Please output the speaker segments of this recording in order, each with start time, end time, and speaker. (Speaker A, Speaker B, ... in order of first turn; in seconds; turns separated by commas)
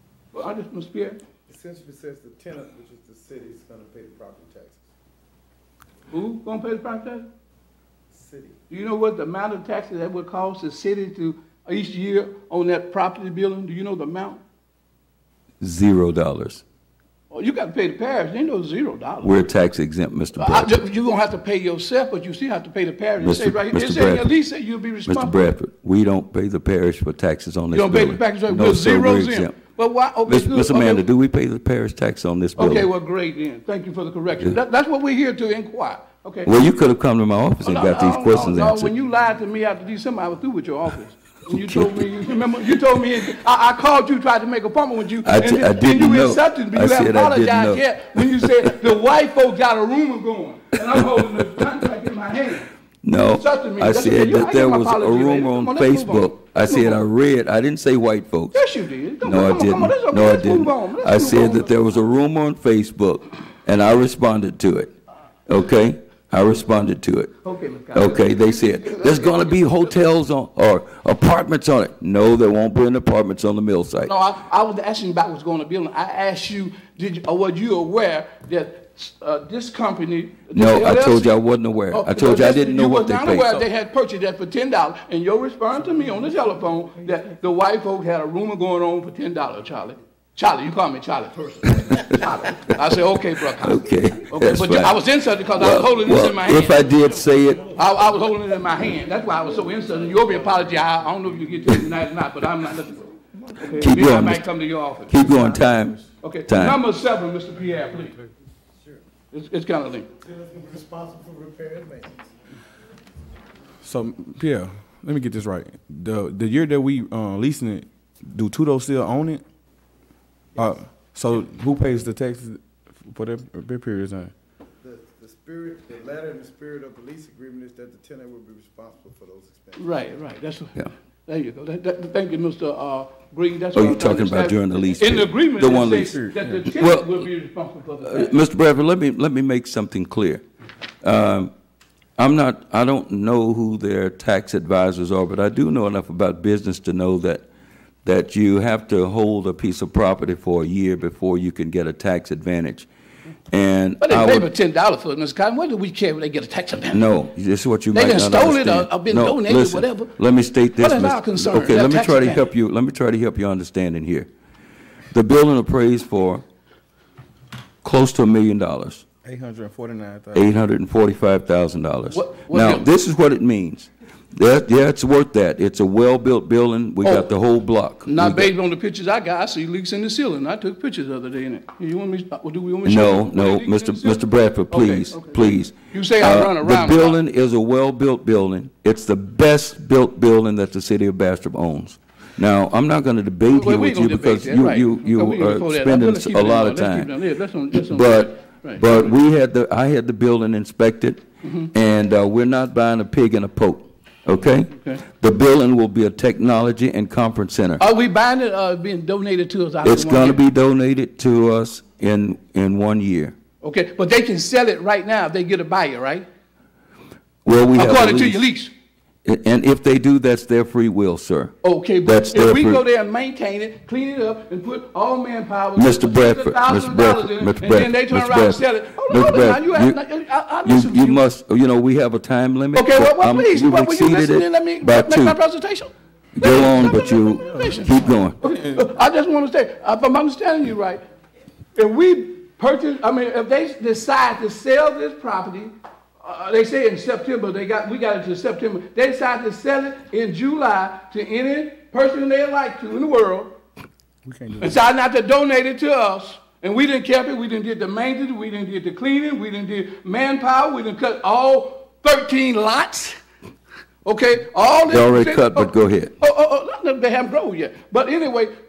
Speaker A: 0.3-1.2, Speaker B: 1.5-4.9, Speaker A: 6.1-7.3, Speaker B: 8.1-8.6, Speaker A: 8.7-14.4, Speaker C: 15.6-16.6, Speaker A: 17.3-19.4, Speaker C: 19.2-20.8, Speaker A: 20.3-25.5, Speaker C: 23.2-24.4, Speaker C: 25.1-29.6, Speaker A: 27.7-31.0, Speaker C: 30.2-32.9, Speaker A: 32.6-36.5, Speaker C: 36.5-38.9, Speaker A: 37.6-52.7, Speaker C: 41.6-42.0, Speaker C: 45.2-48.7, Speaker C: 51.0-51.4, Speaker C: 53.0-58.7, Speaker A: 53.3-57.0, Speaker A: 58.5-61.7, Speaker C: 59.2-64.9, Speaker C: 65.5-67.3, Speaker A: 67.4-69.8, Speaker C: 67.9-74.1, Speaker A: 74.0-81.3, Speaker C: 80.5-83.6, Speaker A: 81.9-103.1, Speaker C: 93.6-95.0, Speaker C: 95.5-97.6, Speaker B: 99.6-100.6, Speaker A: 103.7-105.2, Speaker C: 103.8-104.4, Speaker C: 105.1-106.8, Speaker B: 105.2-105.9, Speaker A: 106.2-108.2, Speaker A: 109.3-110.1, Speaker B: 110.1-112.3, Speaker D: 113.8-119.4, Speaker D: 120.6-124.3, Speaker B: 124.8-129.9, Speaker A: 129.8-138.3, Speaker C: 133.7-137.3, Speaker D: 136.1-136.5, Speaker C: 138.0-140.4, Speaker C: 141.0-141.5, Speaker C: 142.2-147.4, Speaker C: 148.0-152.9, Speaker C: 153.5-154.5, Speaker A: 154.0-157.0, Speaker C: 156.9-164.3, Speaker A: 157.9-160.1, Speaker A: 160.8-162.5, Speaker C: 165.1-166.4, Speaker C: 167.8-169.0, Speaker D: 169.2-170.5, Speaker C: 170.3-178.5, Speaker A: 172.1-172.9, Speaker A: 177.0-177.3, Speaker A: 178.1-187.2, Speaker C: 182.8-197.1, Speaker A: 193.5-199.1, Speaker C: 197.7-207.8, Speaker A: 201.4-201.7, Speaker A: 204.7-205.0, Speaker A: 207.8-210.4, Speaker C: 209.8-213.3, Speaker A: 213.6-216.2, Speaker C: 217.4-218.4, Speaker A: 217.8-218.7, Speaker C: 219.2-222.8, Speaker A: 221.6-231.2, Speaker C: 225.8-230.0, Speaker C: 230.6-235.4, Speaker A: 232.7-241.0, Speaker C: 236.3-238.4, Speaker D: 237.6-238.0, Speaker A: 241.8-253.5, Speaker D: 254.2-254.8, Speaker A: 254.6-263.2, Speaker A: 264.0-268.5, Speaker C: 264.9-266.1